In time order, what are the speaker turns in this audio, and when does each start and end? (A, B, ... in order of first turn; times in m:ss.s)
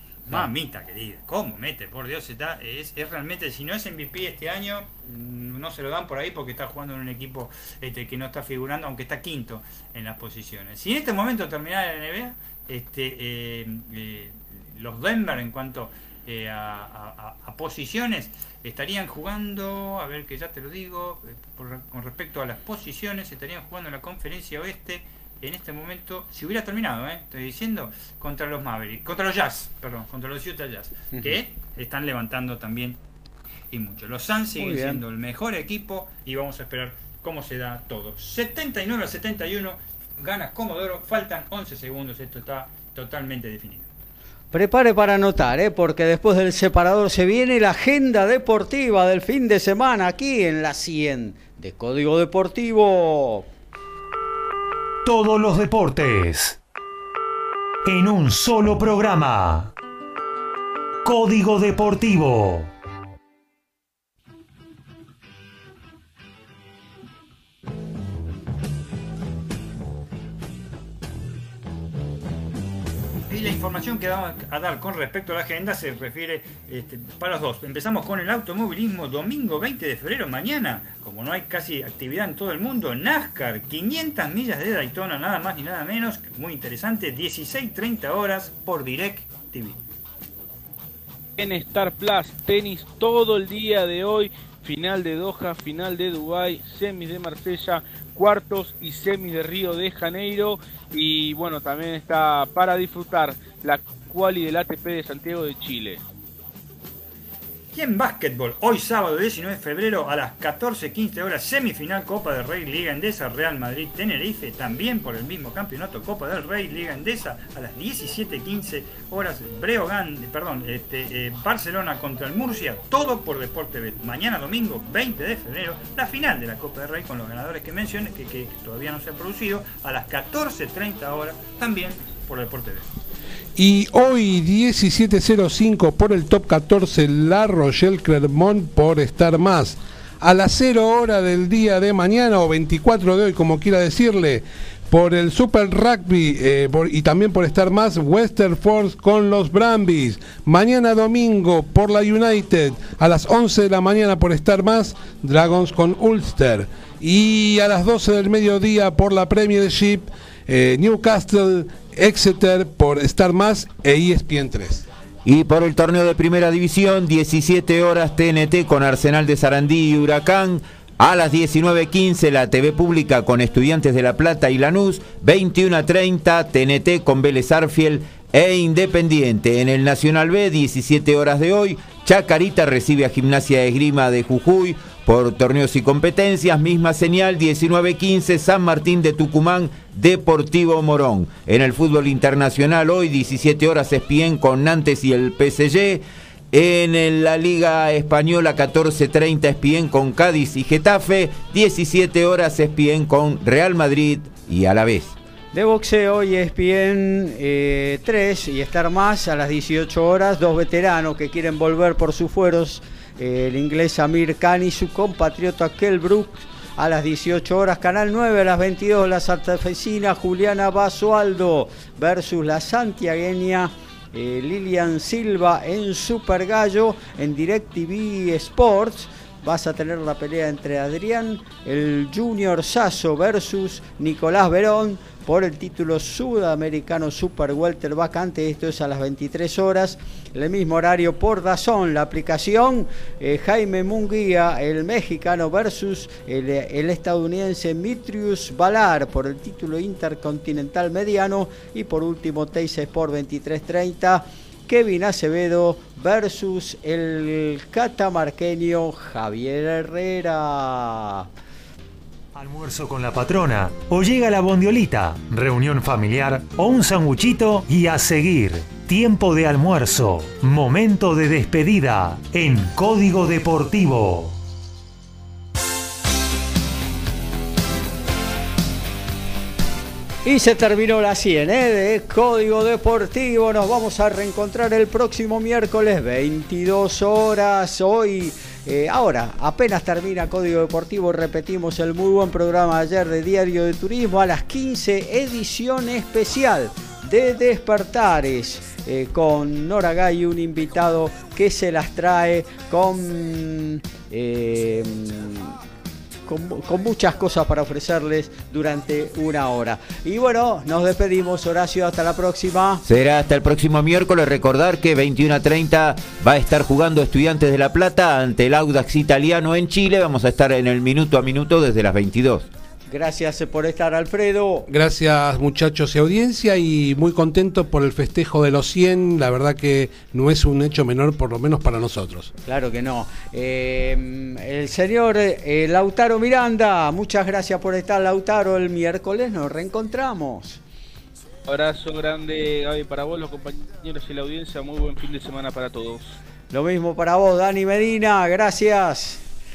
0:00.3-0:33.0 A
0:33.7-0:43.9 A
0:34.6-0:35.0 B
0:44.5-0:53.5 B
0:55.0-0:56.6 C
0:57.8-0:59.7 C
1:01.0-1:02.7 C
1:13.3-1:29.8 A
1:31.4-1:46.0 D
1:47.7-2:13.0 A
2:13.6-2:44.8 E
2:45.2-3:25.2 F
3:25.5-4:21.3 B
4:22.4-4:34.4 C
4:40.2-5:05.6 B
5:06.3-5:12.8 B
5:12.8-5:22.5 F
5:22.9-5:24.7 B
5:24.7-5:32.3 E
5:32.4-5:40.6 B
5:41.5-5:46.2 D
5:46.5-5:49.2 B